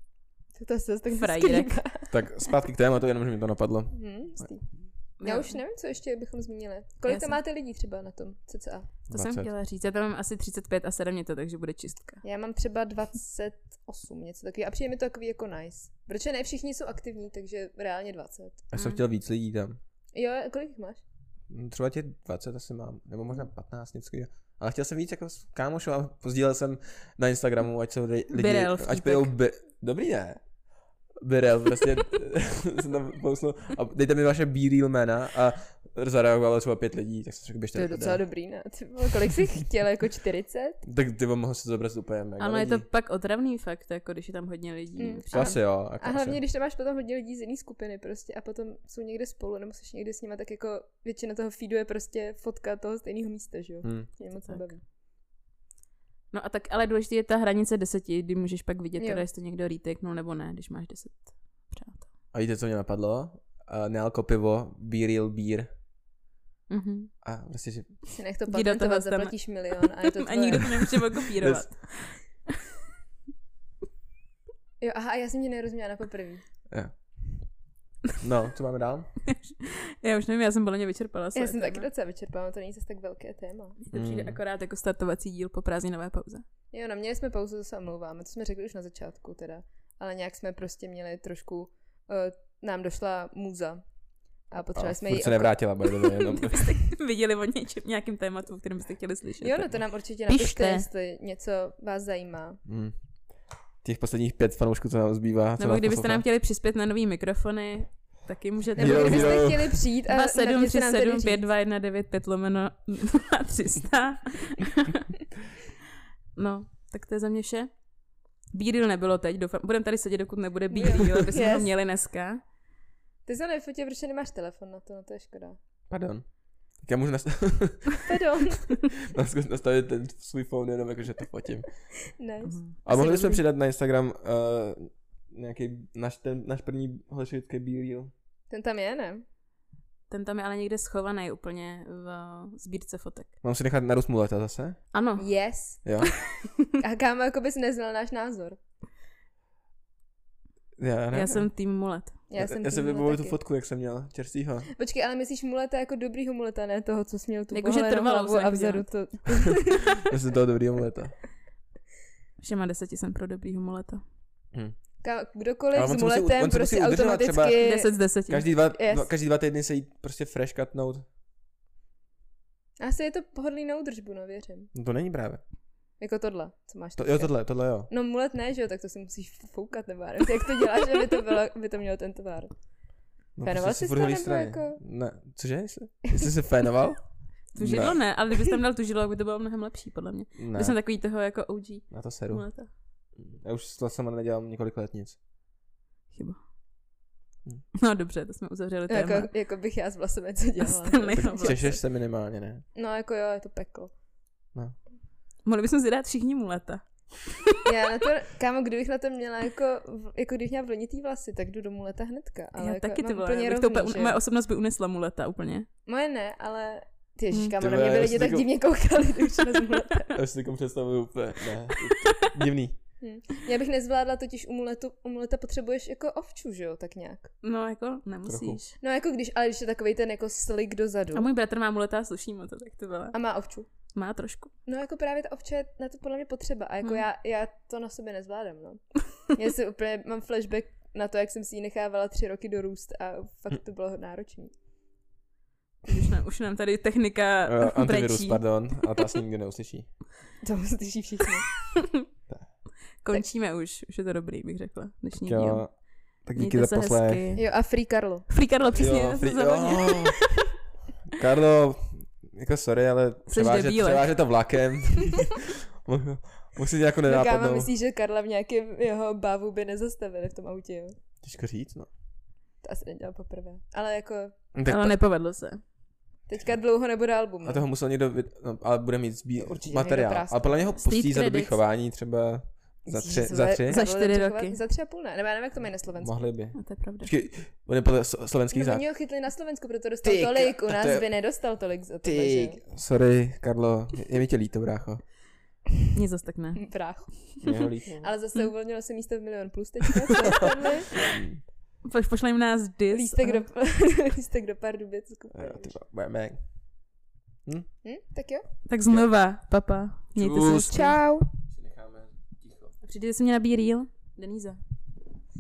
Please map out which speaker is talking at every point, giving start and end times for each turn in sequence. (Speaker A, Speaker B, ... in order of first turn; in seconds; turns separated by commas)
Speaker A: 0.6-2.1, Speaker B: 1.1-1.8, Speaker C: 2.1-4.2, Speaker A: 3.9-8.9, Speaker B: 5.2-5.6, Speaker B: 7.0-7.4, Speaker B: 9.1-12.2, Speaker C: 9.1-9.5, Speaker A: 12.2-18.6, Speaker C: 18.7-19.8, Speaker B: 18.7-19.0, Speaker A: 20.1-21.0, Speaker C: 21.5-30.4, Speaker B: 28.3-29.3, Speaker C: 31.2-38.2, Speaker A: 37.7-40.8, Speaker C: 40.8-42.9, Speaker B: 42.4-45.6, Speaker A: 45.0-54.8, Speaker C: 45.3-46.4, Speaker C: 53.8-54.1, Speaker B: 54.5-54.7, Speaker B: 56.3-62.1, Speaker A: 59.0-59.3, Speaker C: 62.3-65.7, Speaker B: 66.7-67.1, Speaker C: 67.2-68.0, Speaker A: 68.1-70.7, Speaker B: 68.5-72.4, Speaker C: 70.8-71.7, Speaker A: 74.8-76.4, Speaker C: 78.2-79.1, Speaker B: 79.4-81.9, Speaker A: 81.3-83.8, Speaker B: 83.8-86.5, Speaker C: 83.9-84.4, Speaker A: 86.7-93.8, Speaker A: 94.5-95.6, Speaker C: 94.7-96.7, Speaker B: 95.9-100.9, Speaker A: 99.4-102.6, Speaker C: 102.7-103.1, Speaker C: 103.8-106.2, Speaker B: 105.6-115.1, Speaker C: 108.8-109.8, Speaker A: 108.8-111.4, Speaker B: 116.4-117.7, Speaker B: 118.5-122.4, Speaker A: 120.7-121.7, Speaker A: 123.3-125.6, Speaker C: 125.9-126.2, Speaker C: 126.8-128.1, Speaker A: 128.1-128.6, Speaker C: 129.1-131.8, Speaker A: 132.2-132.6, Speaker B: 132.4-133.4, Speaker C: 132.9-138.1, Speaker A: 138.5-139.2, Speaker B: 140.1-143.3, Speaker C: 143.4-144.8, Speaker B: 144.9-145.8, Speaker A: 145.2-145.8, Speaker C: 145.8-146.1, Speaker A: 146.8-148.6, Speaker C: 150.8-151.5, Speaker B: 151.1-152.2, Speaker A: 152.3-153.4, Speaker C: 152.4-154.7, Speaker A: 154.7-160.1, Speaker B: 157.5-159.3, Speaker C: 160.0-161.2, Speaker B: 162.4-164.0, Speaker A: 165.0-167.9, Speaker C: 165.7-167.8, Speaker B: 167.6-168.5, Speaker C: 168.3-171.1, Speaker A: 168.7-169.1, Speaker A: 172.8-174.7, Speaker C: 174.7-175.4, Speaker A: 176.0-182.5, Speaker C: 177.0-177.9, Speaker C: 183.4-188.0, Speaker A: 183.4-184.8, Speaker B: 187.5-192.7, Speaker C: 190.4-190.8, Speaker C: 191.9-192.5, Speaker C: 193.1-195.2, Speaker B: 196.1-196.4, Speaker B: 197.8-199.3, Speaker A: 198.9-201.8, Speaker B: 200.6-201.8, Speaker C: 201.2-202.7, Speaker A: 202.8-203.9, Speaker B: 205.4-207.5, Speaker A: 207.7-214.2, Speaker B: 212.6-215.7, Speaker A: 215.9-220.2, Speaker C: 217.6-218.5, Speaker C: 220.1-222.8, Speaker B: 221.8-222.3, Speaker A: 223.0-227.3, Speaker B: 227.4-228.8, Speaker C: 228.2-228.6, Speaker A: 228.8-231.3, Speaker B: 231.1-233.2, Speaker A: 233.1-233.7, Speaker B: 233.9-234.5, Speaker A: 234.7-244.5, Speaker B: 245.9-248.6, Speaker C: 247.5-249.9, Speaker A: 250.4-251.5, Speaker B: 253.0-257.5, Speaker C: 255.2-257.3, Speaker A: 257.4-258.3, Speaker B: 258.3-260.2, Speaker C: 258.8-260.2, Speaker C: 261.1-267.7, Speaker B: 263.3-264.1, Speaker A: 267.1-270.9, Speaker C: 271.2-271.9, Speaker A: 272.6-274.4, Speaker C: 274.5-275.0, Speaker B: 274.7-275.6, Speaker A: 276.3-277.6, Speaker C: 277.4-283.8, Speaker A: 279.4-280.7, Speaker B: 280.8-281.6, Speaker A: 282.9-286.3, Speaker B: 283.7-284.6, Speaker C: 286.0-288.9, Speaker B: 286.5-287.1, Speaker A: 288.5-292.6, Speaker C: 290.0-291.1, Speaker C: 292.0-295.0, Speaker B: 295.9-297.4, Speaker A: 296.6-297.5, Speaker C: 297.4-298.1, Speaker A: 298.0-300.9, Speaker B: 301.8-303.5, Speaker A: 302.9-305.8, Speaker C: 305.3-306.4, Speaker A: 307.8-308.5, Speaker B: 308.7-310.9, Speaker C: 310.1-312.7, Speaker A: 310.5-311.3, Speaker B: 312.8-314.6